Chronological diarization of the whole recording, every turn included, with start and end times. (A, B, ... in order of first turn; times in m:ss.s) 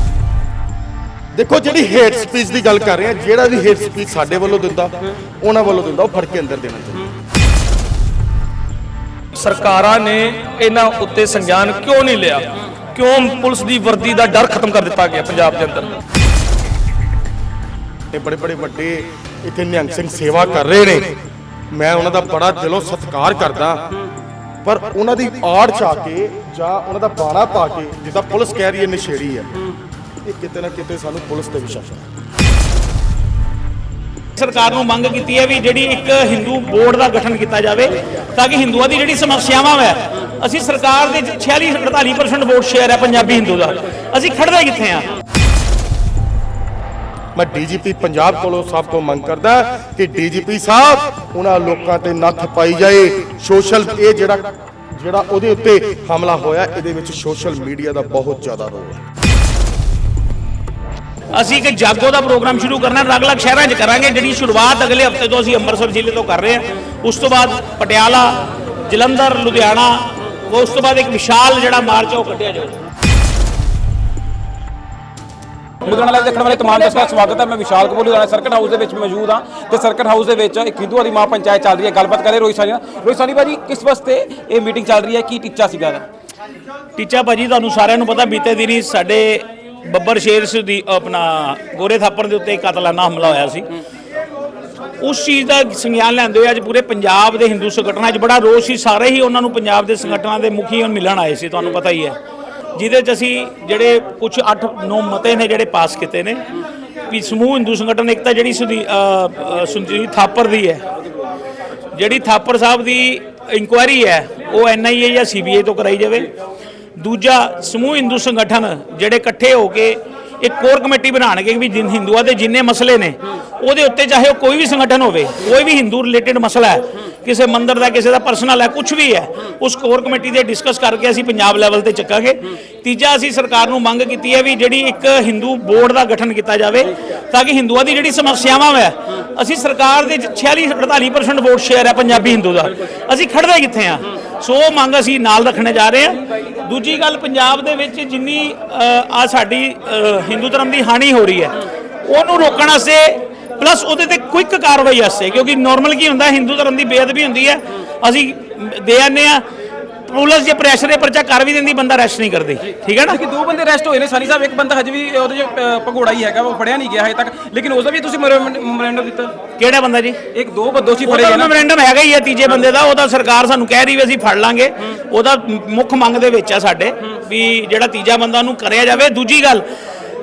0:01.4-0:07.1 A
0:09.4-0:15.9 B
0:18.1-0:21.2 A
0:21.7-0:23.8 A
0:24.6-0:29.5 A
0:30.2-0:32.1 A
0:34.4-0:45.1 C
0:47.4-0:59.0 A
1:01.3-1:12.8 C
1:15.8-1:26.0 D
1:27.0-1:33.7 C
1:35.0-1:42.2 C
1:42.8-1:46.5 C
1:47.1-1:50.8 C
1:51.9-1:56.3 C
1:57.0-2:39.4 C
2:40.1-2:43.2 C
2:43.1-2:49.4 D
2:49.6-2:50.2 C
2:50.3-2:51.5 D
2:51.0-2:59.7 C